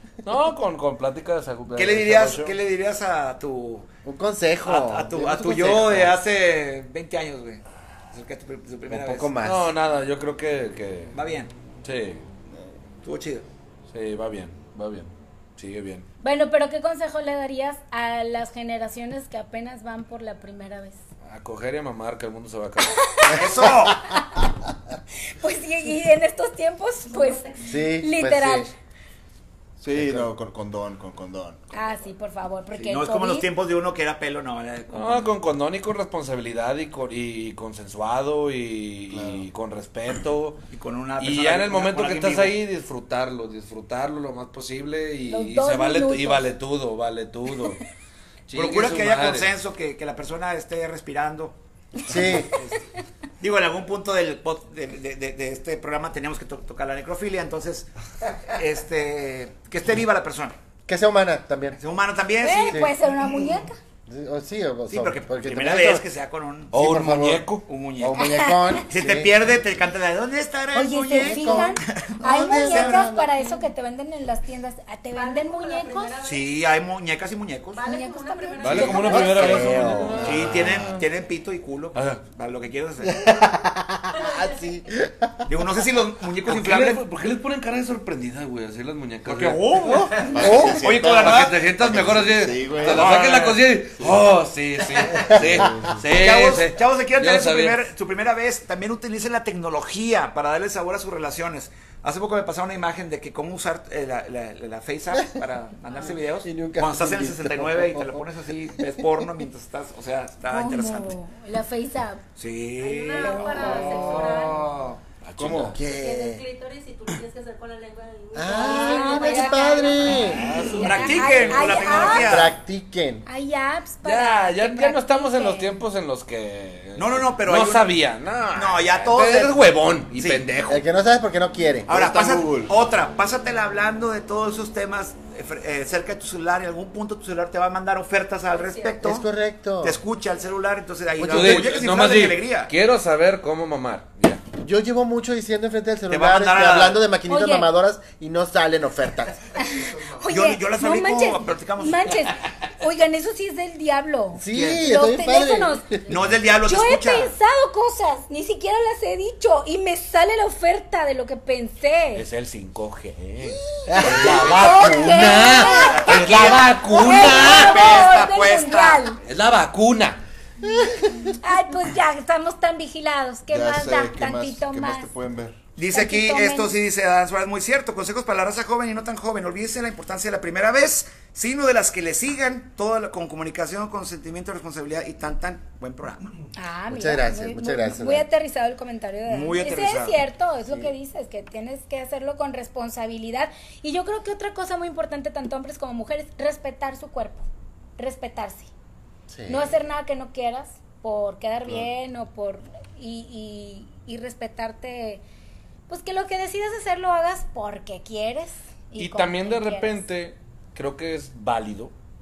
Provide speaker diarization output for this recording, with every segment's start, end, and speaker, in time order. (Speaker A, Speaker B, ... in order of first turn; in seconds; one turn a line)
Speaker A: 0.2-2.5
Speaker B: 1.7-3.9
Speaker C: 4.0-6.1
Speaker B: 4.6-9.3
Speaker C: 8.9-9.7
Speaker A: 9.4-11.2
Speaker B: 11.1-11.5
Speaker A: 11.8-12.2
Speaker B: 13.0-13.4
Speaker A: 13.9-16.1
Speaker D: 16.2-21.0
Speaker A: 21.2-23.1
Speaker D: 22.9-23.5
Speaker B: 23.2-24.1
Speaker D: 25.4-28.7
Speaker E: 27.1-27.7
Speaker C: 27.6-28.7
Speaker F: 29.8-31.9
Speaker C: 29.9-30.3
Speaker D: 31.7-33.5
Speaker B: 32.7-35.2
Speaker A: 34.9-40.6
Speaker F: 39.1-39.4
Speaker B: 40.7-42.6
Speaker A: 41.2-47.9
Speaker D: 45.3-46.5
Speaker A: 48.5-49.5
Speaker B: 48.5-51.5
Speaker C: 52.0-52.5
Speaker B: 52.1-52.8
Speaker B: 53.4-57.9
Speaker B: 58.5-60.5
Speaker C: 60.9-61.8
Speaker B: 61.8-62.8
Speaker D: 62.4-63.8
Speaker C: 62.7-62.9
Speaker C: 64.1-66.1
Speaker B: 64.9-66.7
Speaker A: 66.7-67.6
Speaker C: 66.7-69.4
Speaker B: 67.7-68.3
Speaker D: 68.1-68.8
Speaker B: 68.9-73.1
Speaker D: 70.7-76.2
Speaker C: 71.1-73.3
Speaker E: 75.1-76.5
Speaker B: 76.2-77.8
Speaker E: 77.7-80.0
Speaker D: 77.8-79.9
Speaker A: 78.6-81.0
Speaker C: 79.0-80.8
Speaker B: 80.2-83.3
Speaker F: 80.3-80.6
Speaker A: 81.9-82.2
Speaker C: 83.0-85.5
Speaker E: 84.1-84.6
Speaker B: 85.5-87.0
Speaker A: 86.4-89.7
Speaker B: 89.2-91.5
Speaker C: 90.0-90.8
Speaker F: 90.3-93.1
Speaker A: 90.5-97.8
Speaker B: 92.8-93.6
Speaker F: 95.2-96.0
Speaker B: 96.1-111.2
Speaker C: 106.4-108.2
Speaker D: 110.5-112.2
Speaker B: 112.4-115.0
Speaker E: 112.8-114.7
Speaker D: 113.1-114.7
Speaker A: 115.2-115.8
Speaker F: 115.4-115.8
Speaker C: 115.7-116.5
Speaker E: 115.9-121.1
Speaker C: 118.3-120.4
Speaker D: 118.5-122.5
Speaker A: 120.0-122.2
Speaker B: 120.7-122.5
Speaker E: 121.7-122.3
Speaker C: 122.2-123.2
Speaker D: 123.2-125.7
Speaker A: 124.0-130.8
Speaker B: 127.0-127.9
Speaker B: 128.5-129.6
Speaker B: 130.1-130.4
Speaker C: 130.7-131.9
Speaker F: 131.9-132.7
Speaker B: 131.9-139.2
Speaker E: 138.5-139.0
Speaker C: 138.9-140.0
Speaker B: 139.8-142.7
Speaker C: 141.2-141.7
Speaker A: 141.3-144.4
Speaker C: 144.6-149.4
Speaker B: 146.1-147.0
Speaker D: 147.3-147.7
Speaker D: 149.6-156.0
Speaker B: 150.3-152.3
Speaker C: 154.3-156.0
Speaker B: 154.5-154.9
Speaker B: 156.1-157.3
Speaker D: 156.5-162.2
Speaker A: 162.1-168.0
Speaker C: 163.9-164.8
Speaker D: 164.0-169.2
Speaker B: 165.6-169.1
Speaker A: 169.2-170.2
Speaker C: 170.6-171.3
Speaker D: 171.4-175.1
Speaker F: 173.5-175.6
Speaker B: 175.8-186.4
Speaker D: 175.9-176.8
Speaker D: 186.6-198.7
Speaker C: 186.9-188.3
Speaker B: 189.3-190.2
Speaker C: 199.3-199.7
Speaker D: 199.5-205.2
Speaker D: 205.9-210.1
Speaker A: 209.0-211.9